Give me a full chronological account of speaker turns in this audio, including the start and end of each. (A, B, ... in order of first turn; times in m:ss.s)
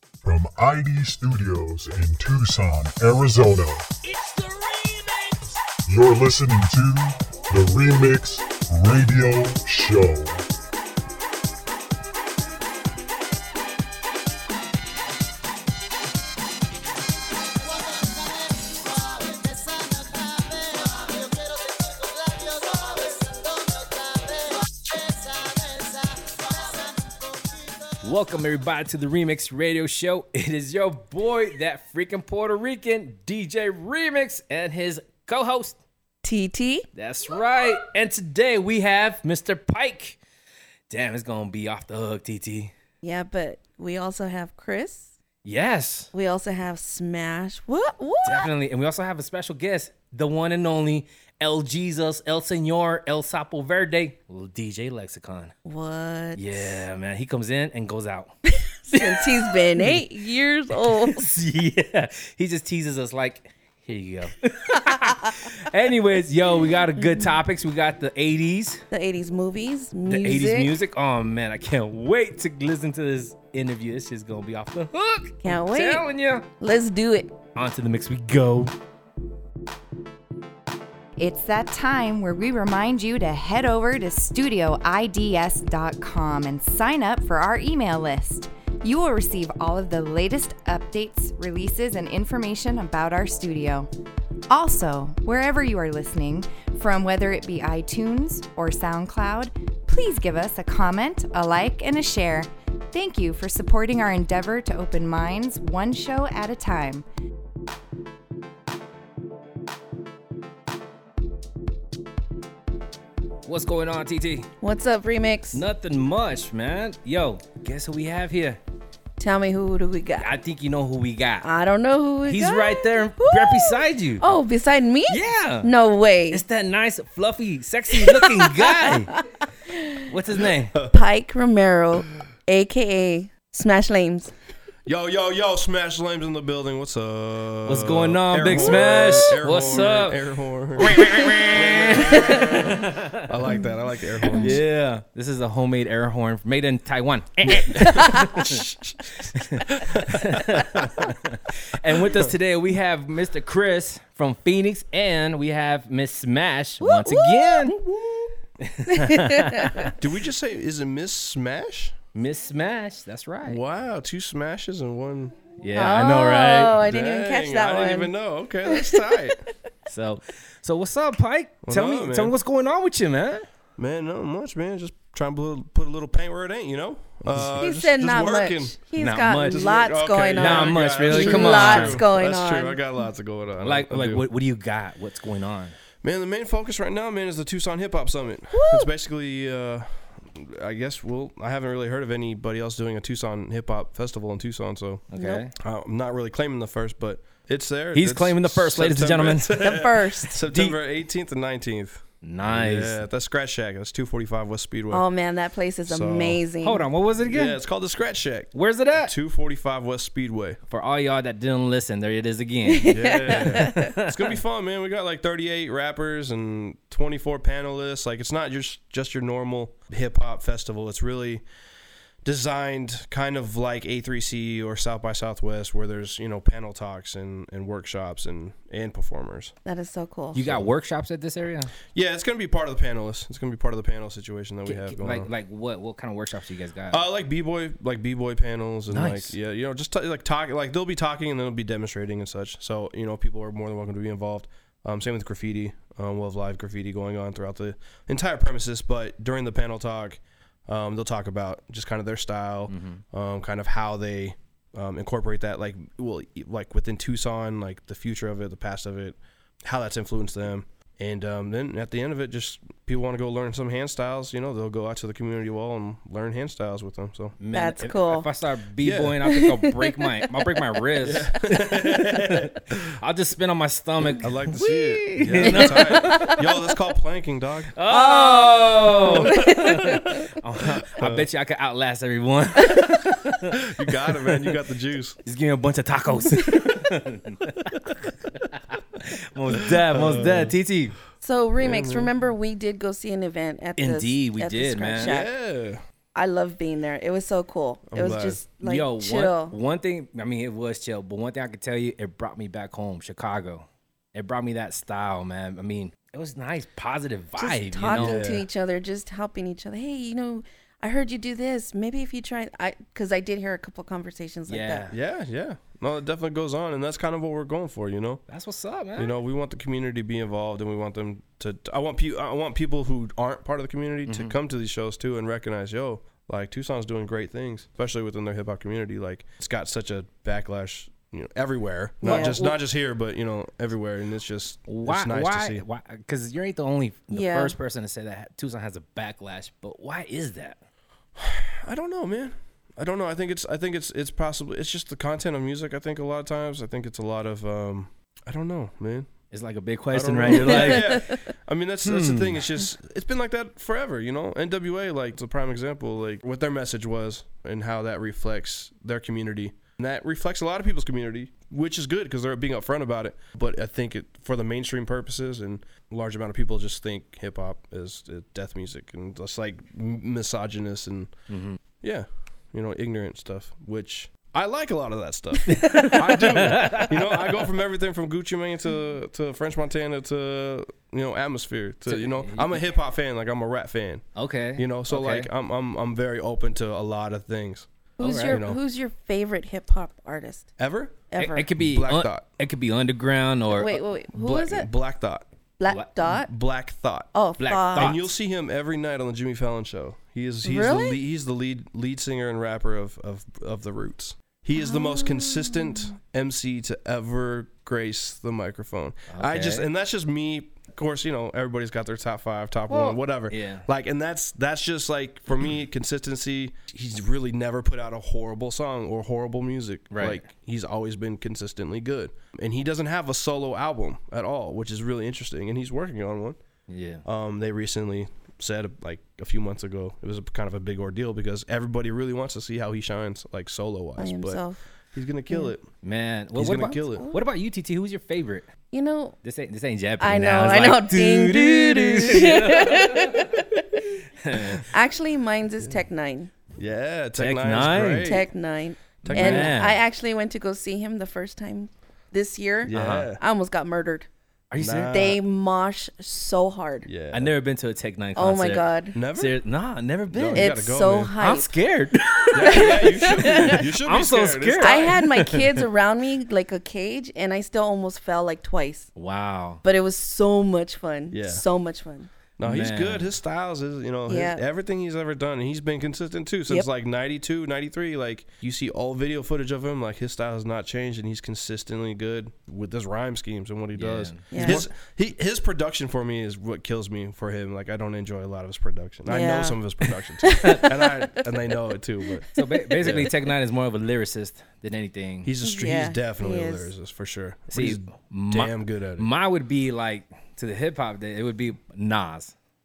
0:00.2-0:04.1 A
0:05.8-0:10.4 A
0:28.0-0:35.8 B
0:36.2-0:36.8 C
0:37.0-0:40.2 B
0:40.9-0:42.7 B
0:43.0-0:45.1 C
0:45.4-0:46.1 B
0:46.1-0:48.5 C
0:48.2-0:55.5 B
0:55.6-0:56.8 C
0:56.4-0:58.4 B
0:58.9-1:01.3 C
1:01.0-1:08.8 B
1:08.9-1:10.7 C
1:10.0-1:16.4 B
1:15.4-1:16.1 C
1:16.6-1:17.3 C
1:17.5-1:18.7 B
1:21.2-1:33.9 D
1:34.5-1:47.0 D
1:53.4-1:54.5 B
1:54.6-1:55.6 C
1:55.5-1:58.6 B
1:59.2-2:00.3 C
2:00.2-2:01.5 B
2:01.4-2:06.4 C
2:02.3-2:04.2 B
2:05.1-2:05.7 B
2:06.3-2:09.1 B
2:08.1-2:08.6 C
2:10.1-2:10.7 B
2:10.9-2:14.3 C
2:14.8-2:24.6 E
2:17.6-2:20.2 B
2:18.5-2:19.1 C
2:20.8-2:23.2 B
2:24.4-2:28.7 B
2:28.3-2:29.0 E
2:29.2-2:37.8 B
2:29.7-2:31.1 E
2:36.8-2:37.4 C
2:37.6-2:38.4 E
2:38.6-2:39.9 B
2:38.9-2:39.8 C
2:39.9-2:42.0 E
2:42.1-2:43.6 B
2:43.4-2:45.4 E
2:45.6-2:46.8 B
2:45.8-2:48.1 C
2:46.8-2:49.4 E
2:48.7-2:49.1 C
2:49.9-2:53.4 B
2:51.6-2:52.3 E
2:53.8-2:58.8 E
2:57.6-3:02.8 C
2:59.0-2:59.7 B
2:59.4-3:04.2 E
3:00.4-3:02.0 B
3:03.6-3:05.8 B
3:06.0-3:15.0 E
3:08.5-3:08.9 C
3:15.1-3:15.5 B
3:15.2-3:15.4 C
3:15.6-3:25.0 E
3:17.9-3:19.6 B
3:19.5-3:20.4 C
3:22.2-3:23.0 B
3:24.9-3:26.8 C
3:25.9-3:26.4 E
3:26.6-3:27.6 B
3:27.2-3:30.6 E
3:28.5-3:29.1 B
3:30.7-3:34.3 B
3:32.7-3:33.8 C
3:32.9-3:41.4 E
3:42.2-3:49.5 E
3:49.6-3:50.4 C
3:50.3-3:51.7 B
3:50.4-3:50.7 E
3:51.9-3:55.3 E
3:54.6-3:57.0 B
3:56.9-4:27.4 E
3:58.9-3:59.4 B
4:12.7-4:13.0 B
4:27.4-4:36.2 B
4:27.5-4:28.3 C
4:28.8-4:29.2 E
4:29.2-4:30.0 C
4:31.0-4:32.8 E
4:34.1-4:37.7 E
4:35.4-4:36.4 C
4:37.8-4:43.6 B
4:37.9-4:40.2 C
4:39.1-4:39.4 E
4:41.0-4:41.3 E
4:43.5-4:45.2 E
4:45.2-4:51.0 B
4:49.6-4:50.6 E
4:51.2-4:55.3 C
4:51.6-4:52.1 E
4:53.8-4:55.1 B
4:55.0-4:55.8 E
4:56.1-4:59.5 C
4:57.9-4:58.4 E
4:58.0-5:08.3 B
5:07.4-5:14.8 C
5:07.9-5:08.4 E
5:14.5-5:15.0 B
5:14.9-5:18.2 E
5:18.3-5:19.1 B
5:19.0-5:35.6 E
5:24.1-5:24.3 B
5:32.0-5:32.6 B
5:32.0-5:32.3 C
5:34.7-5:40.6 B
5:37.1-5:37.5 C
5:41.2-5:49.1 E
5:49.3-5:51.2 B
5:49.9-6:11.1 E
5:50.5-5:51.2 C
5:51.8-5:52.4 B
6:11.3-6:11.6 B
6:11.8-6:28.6 E
6:15.5-6:17.2 B
6:21.9-6:22.6 B
6:24.2-6:25.3 B
6:28.0-6:30.5 C
6:28.0-6:28.4 B
6:30.6-6:31.0 E
6:31.1-6:31.5 C
6:31.2-6:33.8 B
6:31.6-6:32.2 E
6:33.5-6:34.7 C
6:34.1-6:35.2 E
6:35.6-6:36.3 C
6:36.0-6:37.1 E
6:37.1-6:38.0 C
6:37.4-6:38.1 B
6:37.7-7:06.4 E
6:40.4-6:41.0 C
6:44.6-6:45.9 C
6:49.1-6:49.6 B
6:52.7-6:53.6 B
6:59.9-7:00.2 B
7:06.7-7:07.0 B
7:07.0-7:14.4 E
7:14.0-7:14.6 C
7:14.9-7:15.7 E
7:15.8-7:18.4 B
7:16.3-7:17.1 E
7:17.0-7:17.2 C
7:18.7-7:19.1 C
7:19.2-7:23.2 B
7:20.0-7:23.7 C
7:24.2-7:24.6 B
7:24.7-7:26.3 C
7:26.6-7:28.3 E
7:27.2-7:28.1 B
7:28.0-7:34.1 C
7:29.0-7:29.6 E
7:29.0-7:29.8 B
7:32.6-7:33.2 E
7:32.7-7:33.1 B
7:34.5-7:35.0 B
7:34.6-7:35.2 E
7:34.9-7:36.9 C
7:36.8-7:37.3 E
7:37.1-7:40.5 B
7:38.2-7:39.0 C
7:38.9-7:39.4 E
7:40.1-7:41.1 E
7:40.3-7:41.5 C
7:41.2-7:45.6 B
7:42.3-7:43.6 C
7:42.3-7:45.0 E
7:44.6-7:48.9 C
7:49.0-7:49.6 B
7:49.6-7:52.1 C
7:51.1-7:51.4 E
7:52.4-8:12.3 E
7:52.4-7:53.1 B
7:54.1-7:54.4 C
8:03.7-8:04.6 B
8:04.3-8:04.6 C
8:09.1-8:09.6 C
8:10.2-8:10.7 C
8:12.3-8:15.3 B
8:12.8-8:13.1 E
8:15.2-8:19.1 E
8:15.4-8:16.7 C
8:17.5-8:22.3 B